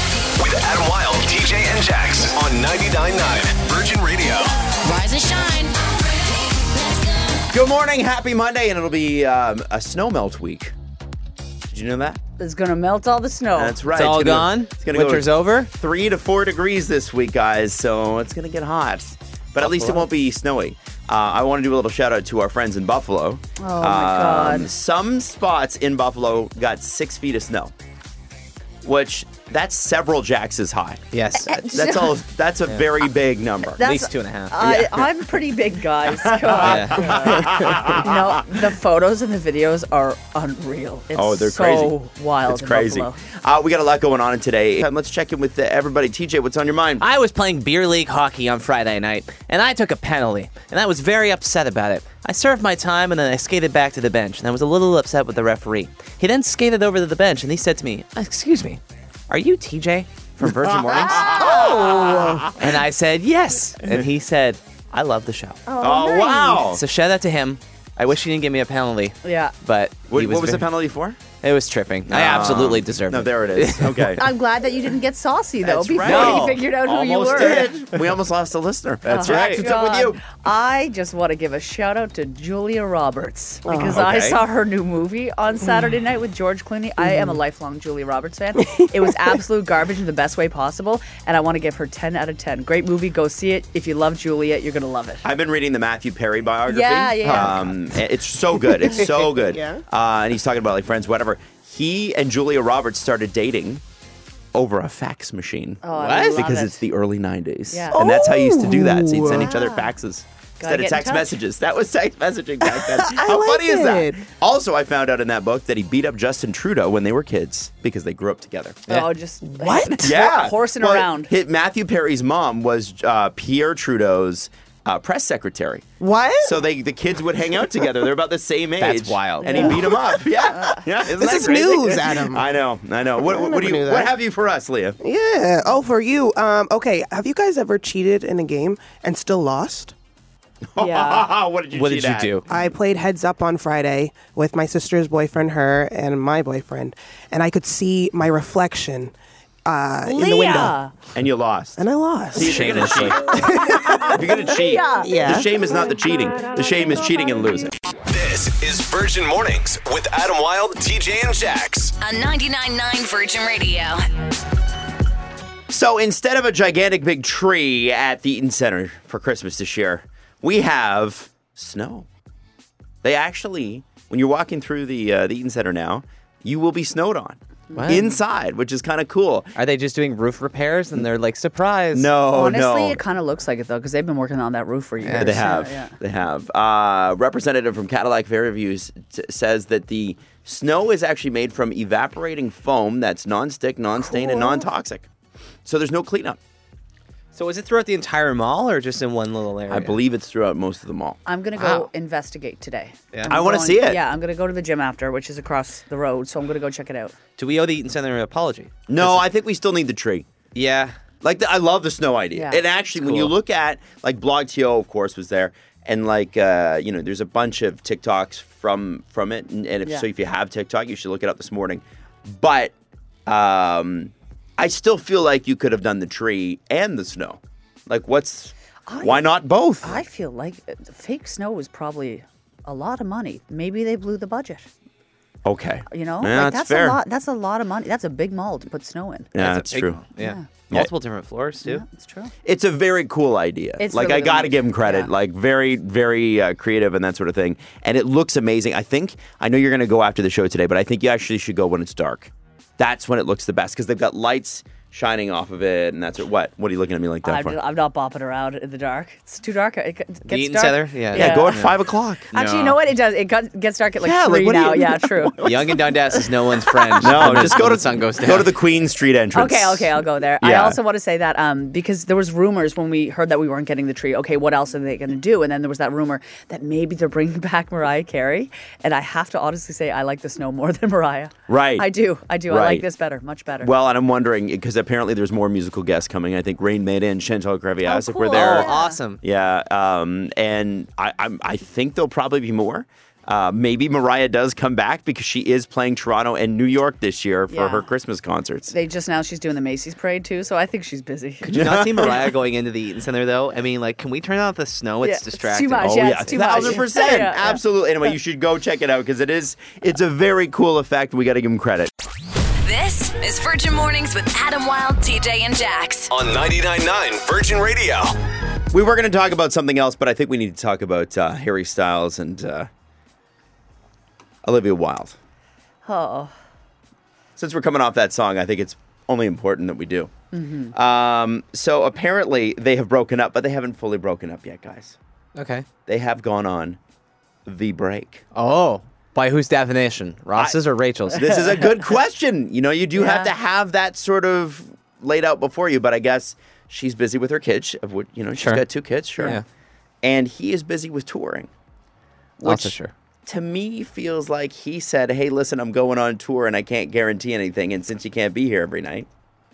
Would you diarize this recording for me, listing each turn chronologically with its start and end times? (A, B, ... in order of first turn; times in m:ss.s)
0:00.3-0:05.4 A
0:04.8-0:05.7 B
0:06.7-0:07.0 B
0:07.5-0:10.7 C
0:11.7-0:12.2 C
0:12.4-0:13.8 D
0:13.5-0:27.7 C
0:13.9-0:15.7 E
0:19.6-0:20.0 E
0:23.6-0:24.7 D
0:28.8-0:33.8 C
0:31.1-0:31.9 E
0:31.4-0:32.2 D
0:33.8-0:43.2 D
0:33.8-0:34.8 E
0:34.6-0:35.0 C
0:36.0-0:38.4 C
0:36.6-0:37.5 E
0:41.1-0:47.0 C
0:47.0-1:01.3 E
1:00.4-1:02.6 C
1:01.1-1:02.6 F
1:01.3-1:02.2 D
1:02.6-1:05.6 E
1:05.6-1:06.6 D
1:05.8-1:06.8 C
1:06.7-1:10.7 E
1:09.2-1:09.5 D
1:10.1-1:11.2 C
1:11.4-1:14.1 E
1:12.1-1:14.3 C
1:14.1-1:17.8 D
1:15.6-1:20.2 C
1:16.0-1:16.6 E
1:19.1-1:35.2 D
1:19.1-1:19.7 E
1:23.6-1:24.0 F
1:23.9-1:24.4 C
1:27.0-1:27.4 F
1:35.2-1:43.8 C
1:36.7-1:37.7 D
1:37.2-1:37.5 E
1:38.7-1:39.8 F
1:44.5-1:58.9 C
1:45.8-1:46.8 D
1:45.9-1:46.4 E
1:47.7-1:48.0 D
1:47.9-1:49.5 F
1:49.3-1:49.9 D
1:50.6-1:51.4 D
1:52.6-1:54.2 F
1:58.9-2:01.3 D
1:59.4-2:00.2 F
2:00.0-2:05.8 C
2:06.0-2:06.6 F
2:06.4-2:15.0 C
2:08.8-2:09.7 E
2:09.4-2:09.8 D
2:09.8-2:10.2 F
2:10.5-2:10.8 D
2:11.0-2:12.5 F
2:13.2-2:14.2 F
2:15.0-2:19.9 F
2:20.7-2:22.4 C
2:20.8-2:21.3 D
2:21.7-2:22.4 E
2:22.5-2:29.1 F
2:29.6-2:30.8 F
2:30.0-2:30.9 D
2:31.1-2:37.7 C
2:31.8-2:34.3 F
2:32.3-2:33.4 E
2:33.7-2:35.2 D
2:35.0-2:35.6 F
2:38.1-2:42.0 A
2:42.0-2:44.0 B
2:45.7-2:52.1 C
2:53.0-2:59.5 C
2:57.7-2:58.1 D
2:57.8-2:58.1 E
2:59.5-3:02.1 E
3:01.9-3:03.0 C
3:02.3-3:05.9 D
3:05.0-3:05.4 E
3:05.2-3:15.1 C
3:14.0-3:14.7 D
3:15.6-3:16.4 C
3:17.3-3:20.0 E
3:19.7-3:21.2 C
3:21.2-3:27.1 D
3:21.6-3:21.9 E
3:23.3-3:24.0 C
3:27.4-3:29.2 E
3:28.9-3:30.2 C
3:30.5-3:30.9 E
3:31.2-3:42.7 C
3:32.3-3:32.6 D
3:33.0-3:33.3 E
3:43.3-3:50.0 C
3:48.8-3:49.3 D
3:49.8-3:54.6 D
3:55.4-3:57.0 C
3:55.9-3:59.3 D
3:59.3-4:00.0 C
3:59.4-4:01.8 E
4:00.2-4:00.5 D
4:01.6-4:02.3 D
4:02.4-4:17.6 C
4:03.8-4:05.1 D
4:17.2-4:21.6 D
4:20.2-4:21.7 E
4:21.1-4:22.3 C
4:22.3-4:22.8 E
4:22.3-4:25.5 D
4:24.0-4:25.7 C
4:25.4-4:28.5 E
4:26.6-4:27.5 D
4:27.0-4:30.8 C
4:29.3-4:43.7 D
4:41.5-4:41.9 C
4:42.5-4:42.8 C
4:43.6-4:58.7 C
4:47.8-4:49.0 D
4:48.3-4:49.2 E
4:57.5-4:57.9 D
4:58.7-5:01.5 D
5:01.4-5:06.3 E
5:01.5-5:02.2 C
5:05.0-5:07.6 D
5:05.8-5:11.9 C
5:12.6-5:16.1 B
5:16.1-5:18.2 A
5:18.7-5:22.7 C
5:24.4-5:25.2 C
5:25.8-5:26.3 D
5:27.4-5:30.1 C
5:30.3-5:30.7 D
5:30.7-5:35.0 C
5:35.4-5:35.6 E
5:35.9-5:36.8 C
5:37.4-5:38.2 C
5:38.3-5:41.4 E
5:41.1-5:49.4 C
5:43.0-5:43.3 D
5:48.4-5:48.6 E
5:49.2-5:49.4 E
5:50.0-5:51.5 C
5:52.4-5:52.7 D
5:52.4-5:52.9 E
5:53.2-5:59.1 C